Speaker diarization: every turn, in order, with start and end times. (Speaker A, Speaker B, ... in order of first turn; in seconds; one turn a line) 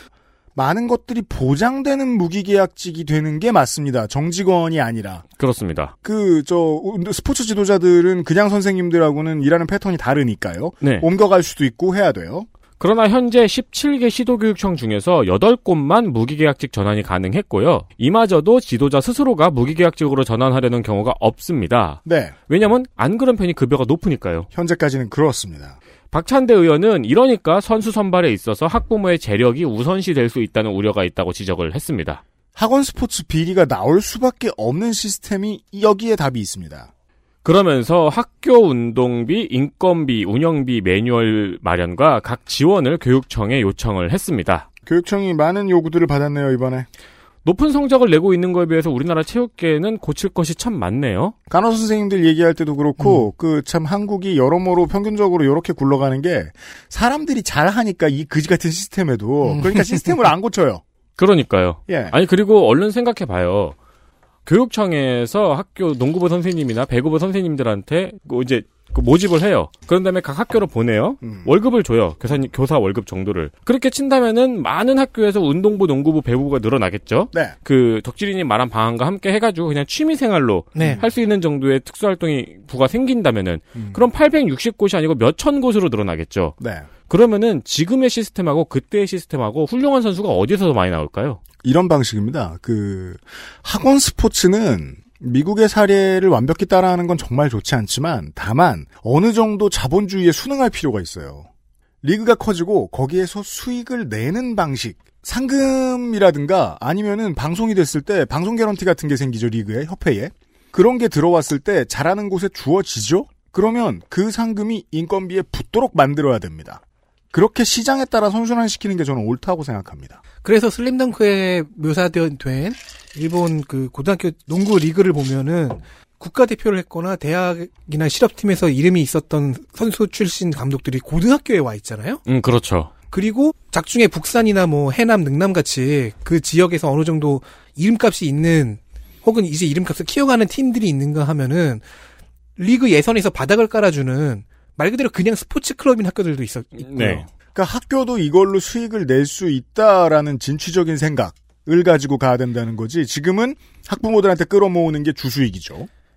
Speaker A: 0.6-5.2
Speaker B: 5.4-5.9
Speaker A: 6.0-12.5
Speaker B: 10.8-11.1
Speaker B: 12.8-24.5
Speaker A: 22.1-22.4
Speaker A: 24.5-25.8
Speaker B: 26.1-32.2
Speaker A: 32.6-36.9
Speaker B: 37.4-44.7
Speaker A: 44.9-46.9
Speaker B: 47.5-51.4
Speaker A: 51.5-60.8
Speaker C: 59.5-60.0
Speaker B: 61.2-63.8
Speaker A: 61.9-62.1
Speaker B: 64.5-86.6
Speaker A: 71.2-71.5
Speaker C: 80.8-81.0
Speaker A: 80.8-81.1
Speaker A: 83.8-84.0
Speaker A: 86.6-86.9
Speaker B: 87.1-91.4
Speaker A: 91.6-101.5
Speaker A: 102.0-116.8
Speaker A: 117.3-120.2
Speaker C: 120.4-132.2
Speaker B: 132.3-132.9
Speaker C: 133.1-141.8
Speaker C: 142.6-147.3
Speaker B: 146.9-147.2
Speaker A: 147.6-155.9